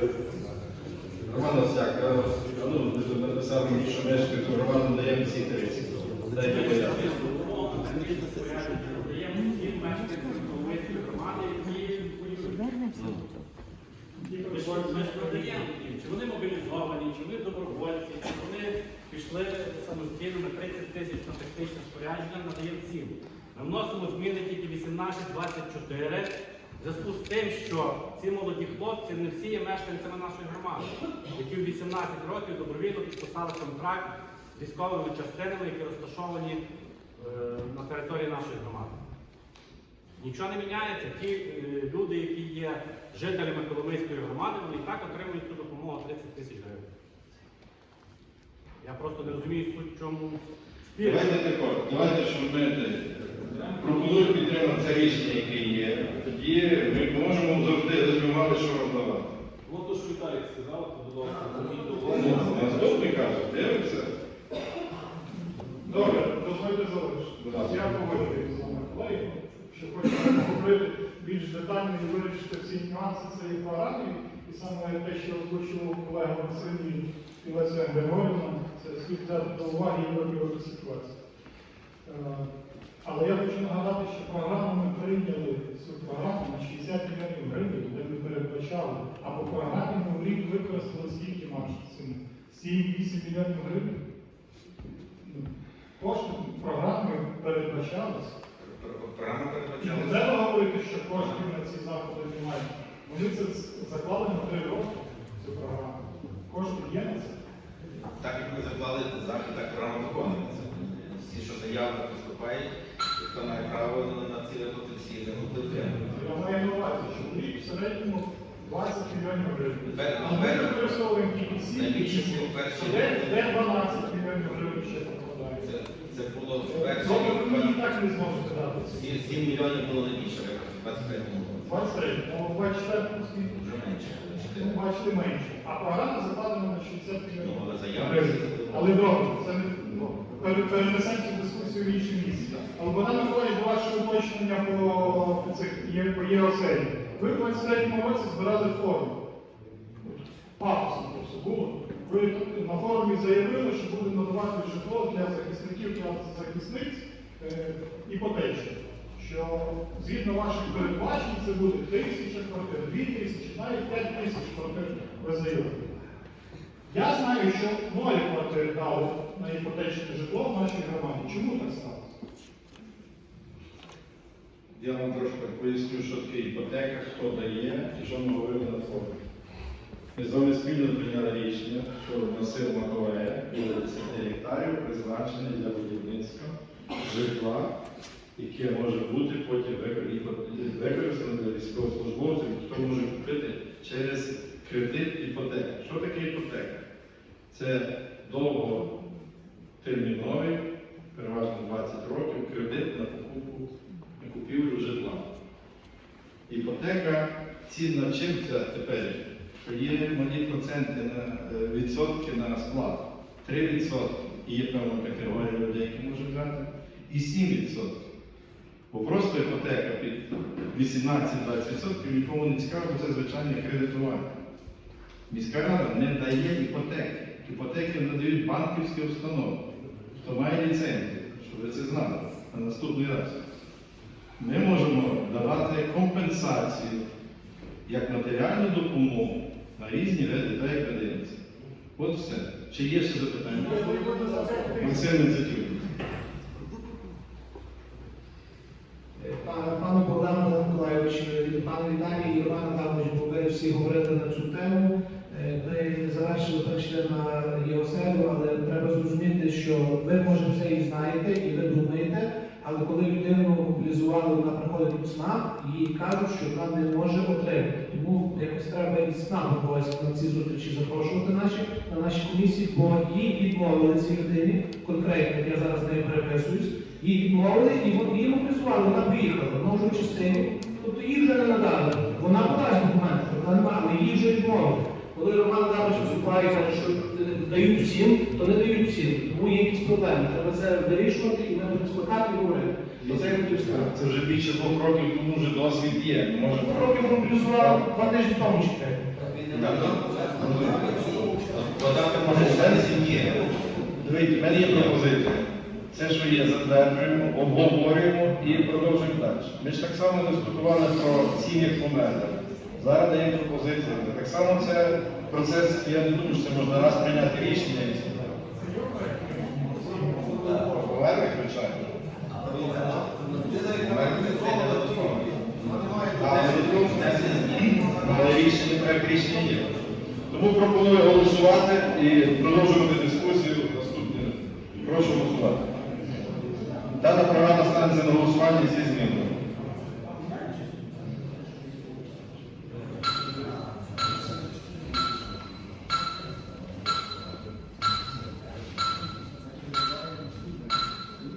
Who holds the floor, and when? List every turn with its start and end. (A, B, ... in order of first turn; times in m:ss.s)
0:01.3-0:07.1 A
0:06.4-0:12.9 B
0:14.2-0:15.6 C
0:14.5-0:36.6 B
0:37.2-0:38.9 B
0:40.2-0:46.8 B
0:48.8-0:50.4 B
0:51.0-0:51.4 B
0:51.0-0:59.4 A
0:59.7-1:03.2 D
1:01.5-1:02.8 B
1:02.0-1:04.1 A
1:05.8-1:21.2 C
1:07.4-1:07.9 A
1:22.0-1:22.5 C
1:23.0-1:34.0 C
1:35.2-1:38.4 C
1:38.6-1:40.3 E
1:39.8-1:47.4 C
1:48.2-1:56.0 E
1:56.0-2:05.6 C
1:59.9-2:00.9 E
2:01.7-2:03.5 E
2:05.6-2:07.8 E
2:06.7-2:09.3 C
2:09.0-2:11.7 E
2:11.6-2:13.5 C
2:13.5-2:14.7 E
2:14.5-2:29.2 C
2:17.4-2:18.9 E
2:30.6-2:45.9 C
2:46.9-2:52.1 C
2:54.8-2:59.2 A
3:00.2-3:07.7 A
3:08.4-3:16.8 A
3:17.5-3:18.9 A
3:19.8-3:20.6 A
3:21.1-3:25.2 A
3:26.5-3:38.0 A
3:38.9-3:44.3 A
3:45.3-3:49.6 A
3:50.2-3:53.4 A
3:54.4-3:57.0 A
3:57.9-4:01.4 A
4:02.0-4:03.8 A
4:03.5-4:05.2 C
4:03.6-4:05.0 F
4:04.8-4:05.8 A
4:09.2-4:53.9 F
4:53.0-4:58.2 A
4:56.5-4:59.0 F
4:59.5-4:59.9 E
4:59.5-5:01.3 A
4:59.8-5:02.0 D
5:01.5-5:03.4 E
5:02.1-5:03.2 A
5:04.0-5:18.3 A
5:04.4-5:05.0 E
5:18.5-5:20.5 C
5:20.2-5:21.9 A
5:22.4-5:28.2 D
5:22.6-5:23.0 E
5:23.6-5:25.4 E
5:26.2-5:28.9 E
5:26.2-5:29.6 A
5:30.3-5:35.6 A
5:37.0-5:39.4 A